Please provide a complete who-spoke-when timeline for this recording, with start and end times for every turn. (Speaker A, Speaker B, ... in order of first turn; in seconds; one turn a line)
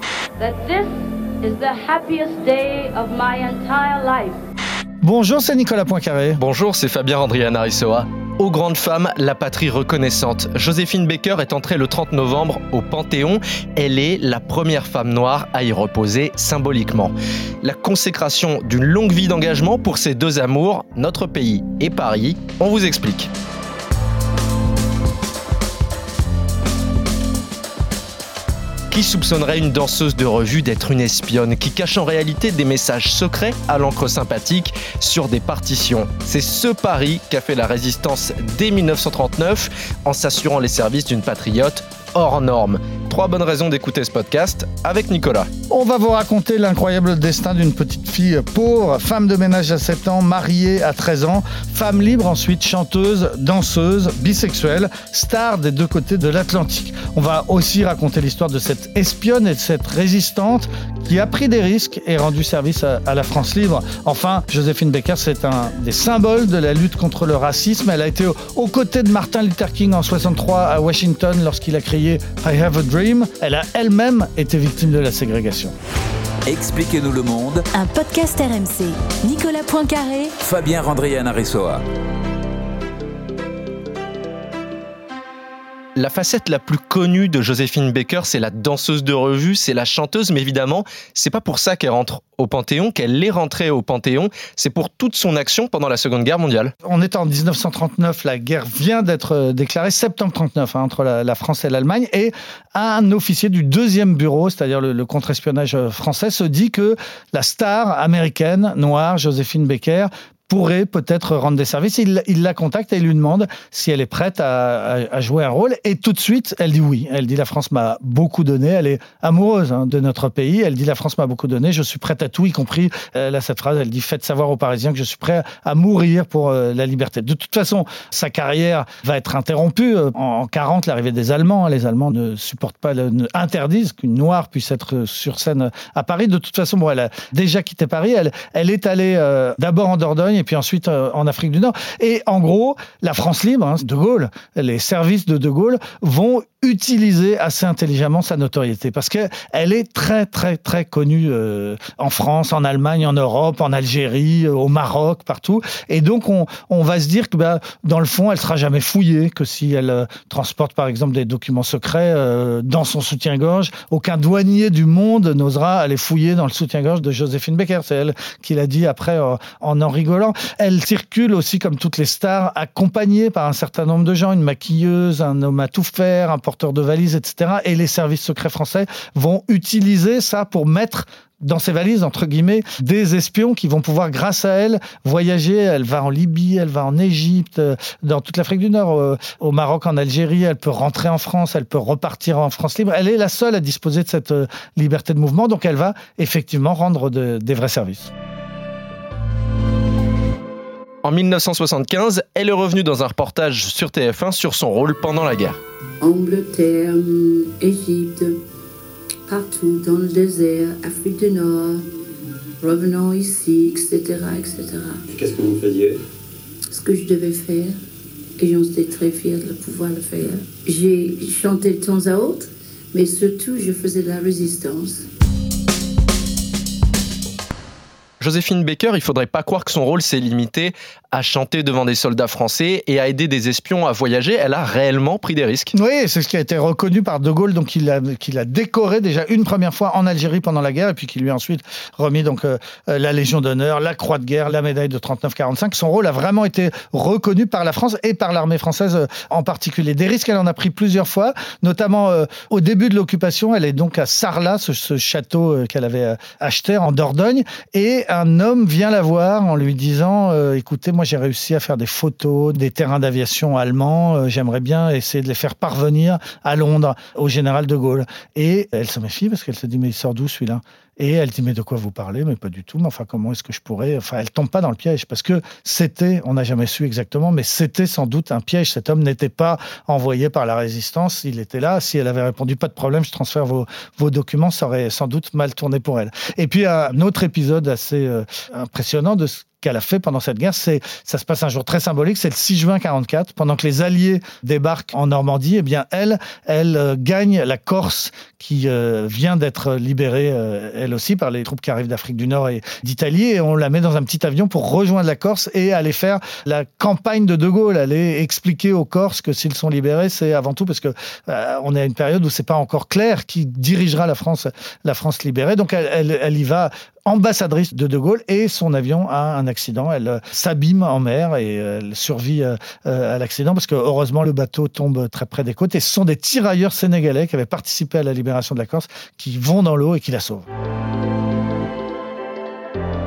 Speaker A: 0.4-4.4
Speaker B: 5.0-6.4
Speaker C: 6.4-23.3
Speaker C: 28.9-45.5
Speaker B: 45.7-75.7
Speaker D: 76.5-77.6
Speaker E: 77.8-78.8
Speaker E: 79.3-80.2
Speaker D: 80.4-81.8
Speaker C: 86.0-96.7
Speaker B: 96.8-198.1
Speaker C: 201.0-205.6
Speaker F: 206.0-208.4
Speaker F: 209.3-211.8
Speaker F: 212.6-215.0
Speaker C: 215.1-216.0
Speaker F: 216.7-217.8
Speaker F: 218.4-225.0
Speaker C: 228.2-235.7
Speaker B: 235.7-330.4